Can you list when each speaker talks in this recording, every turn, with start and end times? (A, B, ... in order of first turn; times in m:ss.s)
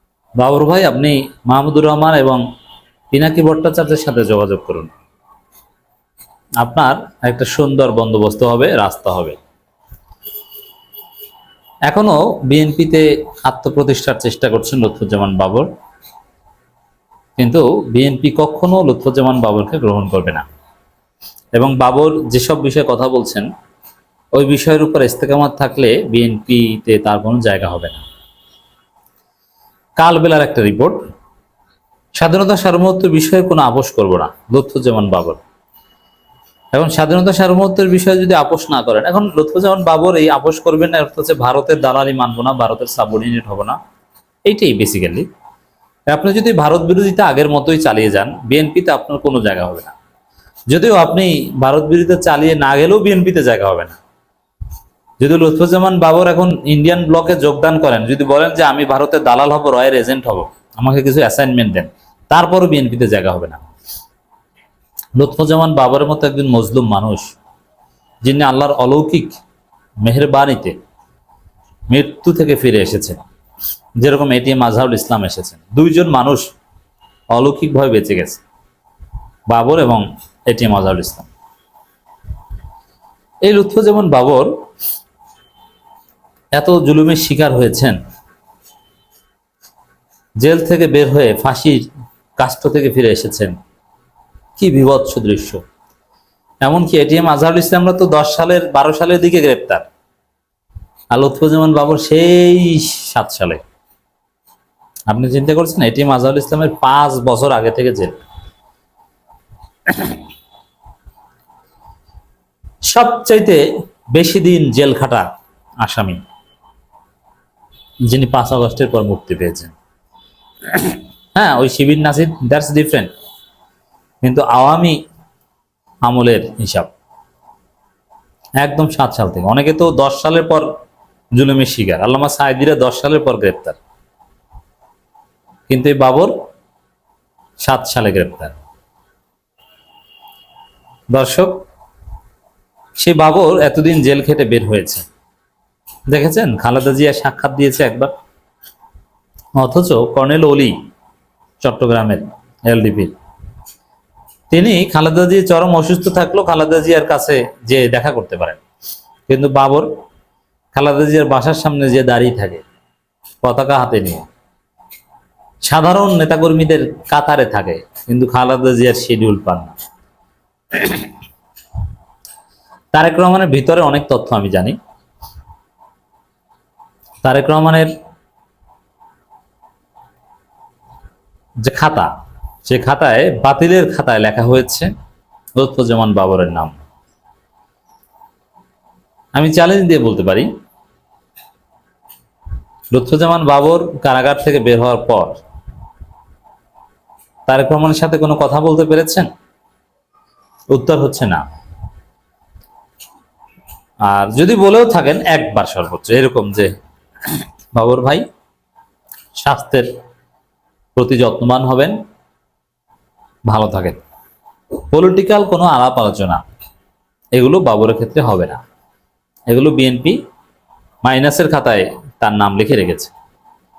0:00.4-0:02.4 A
0:03.1-0:04.9 A
0:06.6-0:09.4 A
0:11.9-0:15.7 A
0:17.4-0:20.4 A
0:21.6-0:23.5 A
0:24.3-0:28.0 A
0:30.0-0:31.0 A
0:32.2-0:35.4 A
0:36.7-0:43.8 A
0:44.5-0:45.3 A
0:46.1-0:49.9 A
0:50.7-0:54.0 A
0:55.2-1:03.6 A
1:05.2-1:07.3 A
1:08.2-1:09.4 A
1:10.0-1:10.8 A
1:11.9-1:13.2 A
1:14.0-1:16.5 A
1:17.3-1:18.4 A
1:19.5-1:21.3 A
1:23.4-1:24.5 A
1:26.6-1:28.0 A
1:30.4-1:31.9 A
1:32.4-1:33.6 A
1:34.6-1:35.6 A
1:36.6-1:39.9 A
1:41.1-1:43.6 A
1:45.1-1:48.2 A
1:49.9-1:50.2 A
1:52.9-1:53.6 A
1:54.1-1:55.3 A
1:55.8-1:56.2 A
1:58.1-1:59.7 A
2:00.7-2:03.1 A
2:04.2-2:05.0 A
2:06.1-2:06.9 A
2:08.6-2:10.7 A
2:11.4-2:13.8 A
2:15.7-2:16.3 A
2:17.6-2:18.6 A
2:21.1-2:21.6 A
2:23.0-2:25.0 A
2:26.1-2:28.1 A
2:29.6-2:30.8 A
2:31.6-2:33.1 A
2:34.5-2:38.6 A
2:39.3-2:39.9 A
2:40.7-2:42.6 A
2:43.4-2:44.3 A
2:45.6-2:49.8 A
2:50.7-2:51.1 A
2:52.9-2:54.8 A
2:57.2-2:57.9 A
3:01.6-3:02.1 A
3:02.6-3:04.9 A
3:05.6-3:06.8 A
3:09.4-3:10.5 A
3:12.9-3:15.4 A
3:17.5-3:19.3 A
3:20.7-3:21.4 A
3:24.0-3:26.7 A
3:27.7-3:28.2 A
3:29.4-3:29.9 A
3:31.0-3:32.0 A
3:33.5-3:34.0 A
3:34.9-3:36.4 A
3:37.4-3:38.6 A
3:39.5-3:40.2 A
3:41.0-3:43.1 A